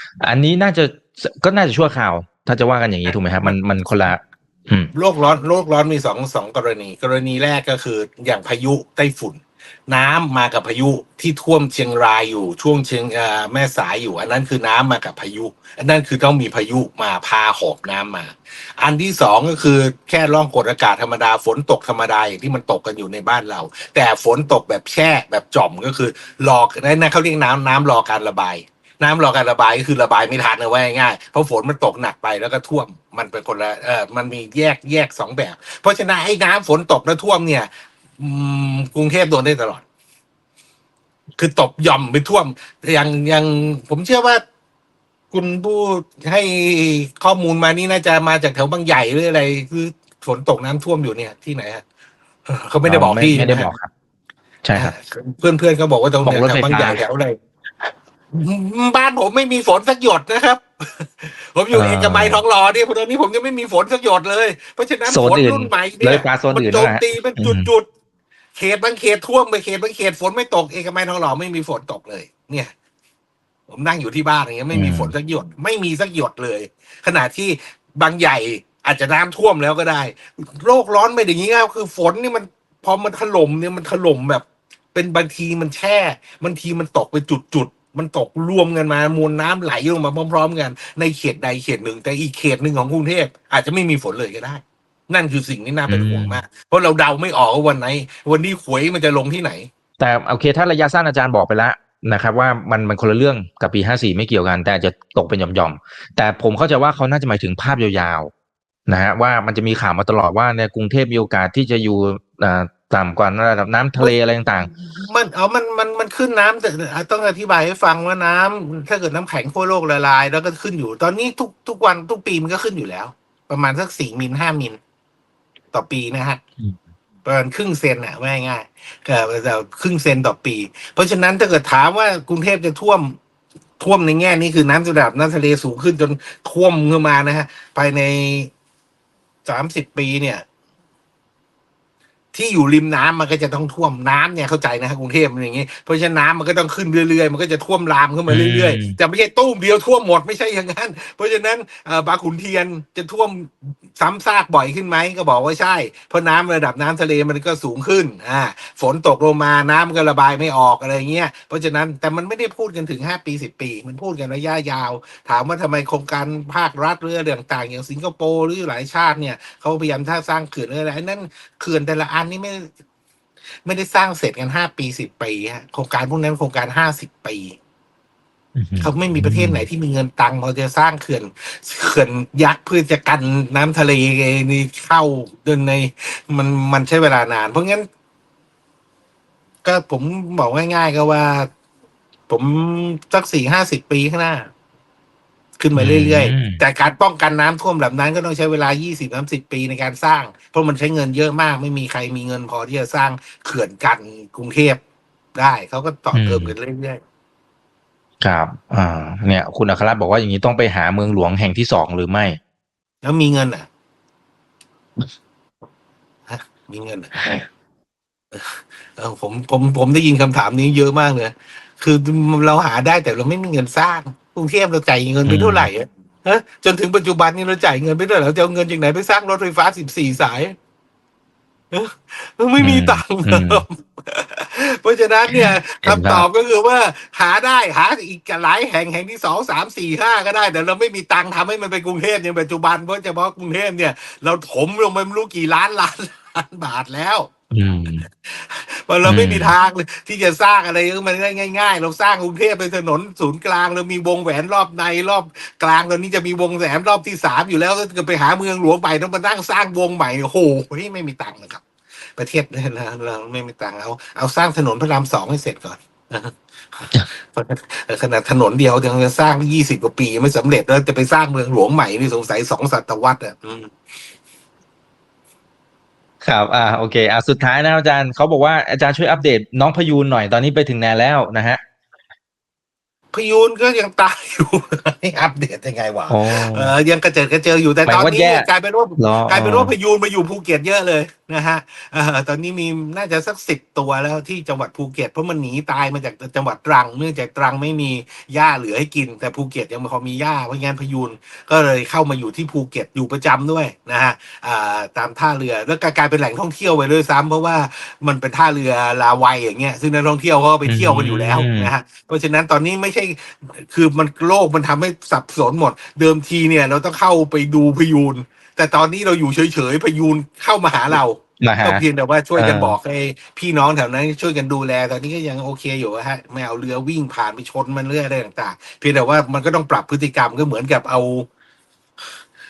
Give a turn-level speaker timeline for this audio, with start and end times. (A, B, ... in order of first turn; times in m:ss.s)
0:00.2-0:04.9 A
0:04.9-0:39.8 B
0:41.4-0:44.4 B
0:45.3-0:51.8 B
0:52.5-0:53.7 B
0:52.8-0:53.9 A
0:54.6-0:54.9 A
0:54.7-0:57.4 B
0:56.2-0:57.0 A
0:58.3-1:07.9 B
1:01.7-1:02.4 A
1:05.1-1:07.7 A
1:08.5-1:12.7 B
1:13.7-1:39.7 B
1:14.7-1:15.1 A
1:35.9-1:36.4 A
1:40.0-1:48.3 A
1:48.9-1:54.7 A
1:54.7-2:04.8 B
2:05.7-2:06.4 B
2:07.2-2:13.2 B
2:13.8-2:18.5 B
2:19.4-2:20.4 B
2:22.3-2:52.7 B
2:28.3-2:29.0 A
2:53.6-2:57.6 B
2:58.6-2:59.6 A
2:58.8-3:07.9 B
3:09.6-3:11.5 B
3:12.3-3:14.5 B
3:15.6-3:24.8 B
3:15.7-3:16.6 A
3:25.3-3:27.0 B
3:26.1-3:26.5 A
3:28.2-3:32.4 A
3:33.0-3:33.7 B
3:36.3-3:37.4 B
3:37.2-3:37.4 A
3:38.3-3:50.5 B
3:45.2-3:45.7 A
3:51.7-4:07.3 B
3:52.6-3:53.6 A
3:55.3-3:56.2 A
4:07.5-4:08.0 A
4:08.2-4:21.6 B
4:09.0-4:09.5 A
4:22.2-4:33.7 B
4:36.2-4:41.6 A
4:43.1-5:31.3 B
4:46.1-4:46.7 A
4:47.8-4:49.7 A
5:10.6-5:11.7 A
5:20.9-5:21.8 A
5:22.4-5:22.7 A